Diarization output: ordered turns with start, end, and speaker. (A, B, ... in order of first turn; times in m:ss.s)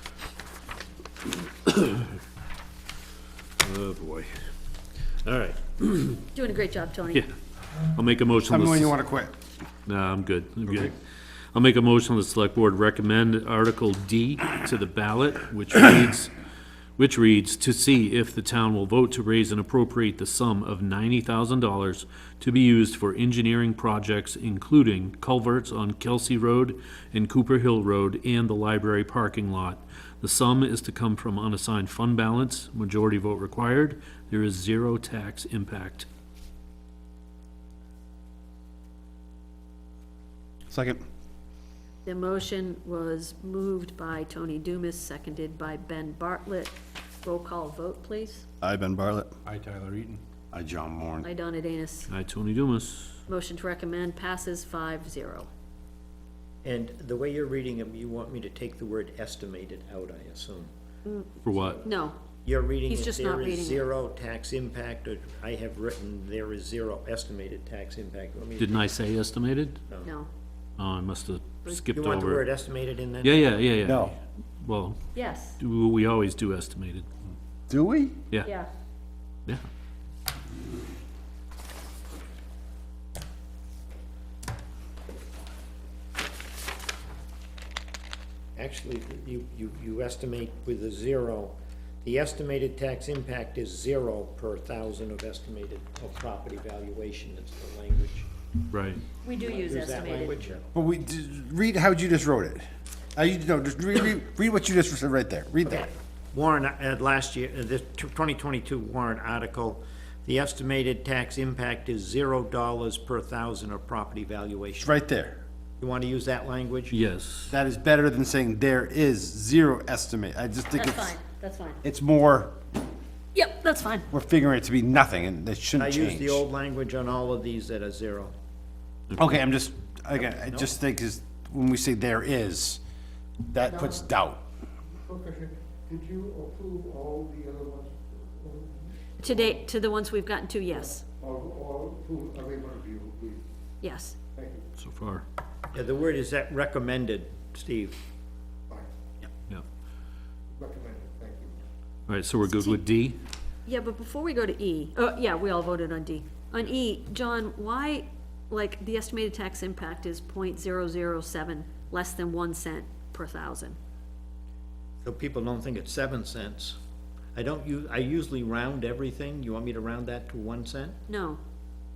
0:01.6-0:02.1 A
0:03.6-0:04.4 A
0:05.2-0:06.2 A
0:06.3-0:07.2 B
0:07.9-0:09.0 A
0:08.5-0:09.3 C
0:09.9-0:11.0 A
0:11.5-0:16.3 A
0:17.0-0:36.1 A
0:40.7-0:41.0 C
0:42.0-0:48.5 B
0:48.6-0:49.4 C
0:49.5-0:50.2 A
0:50.5-0:51.3 C
0:51.2-0:52.1 B
0:52.1-0:53.2 A
0:53.3-0:55.5 B
0:56.6-1:00.7 D
1:01.0-1:02.2 B
1:01.4-1:01.8 A
1:02.4-1:08.9 D
1:02.9-1:03.9 B
1:08.6-1:09.8 A
1:10.0-1:10.3 B
1:10.8-1:12.5 A
1:11.9-1:13.5 D
1:13.2-1:15.1 A
1:13.8-1:14.2 C
1:15.1-1:15.6 B
1:15.6-1:17.1 A
1:17.7-1:18.2 C
1:18.4-1:18.7 B
1:28.6-1:38.3 D
1:38.7-1:39.0 A
1:39.2-1:40.4 B
1:39.4-1:40.7 D
1:40.7-1:45.9 C
1:45.7-1:55.0 D
1:54.8-1:55.4 C
1:55.8-1:57.0 D
1:56.9-1:57.5 A
1:57.5-2:01.2 C
2:00.8-2:01.8 B
2:01.8-2:02.6 C
2:03.4-2:04.1 B
2:04.1-2:06.4 C
2:05.8-2:08.3 D
2:09.2-2:12.8 C
2:10.2-2:10.7 D
2:13.5-2:14.4 C
2:13.7-2:14.0 B
2:15.1-2:18.8 E
2:19.2-2:21.0 B
2:21.2-2:23.4 E
2:23.8-2:24.2 B
2:24.4-2:24.6 E
2:24.8-2:25.2 A
2:25.7-2:28.0 D
2:30.6-2:31.6 E
2:32.1-2:33.2 A
2:33.7-2:43.8 B
2:45.0-2:46.8 D
2:47.4-2:51.0 D
2:51.1-2:51.4 B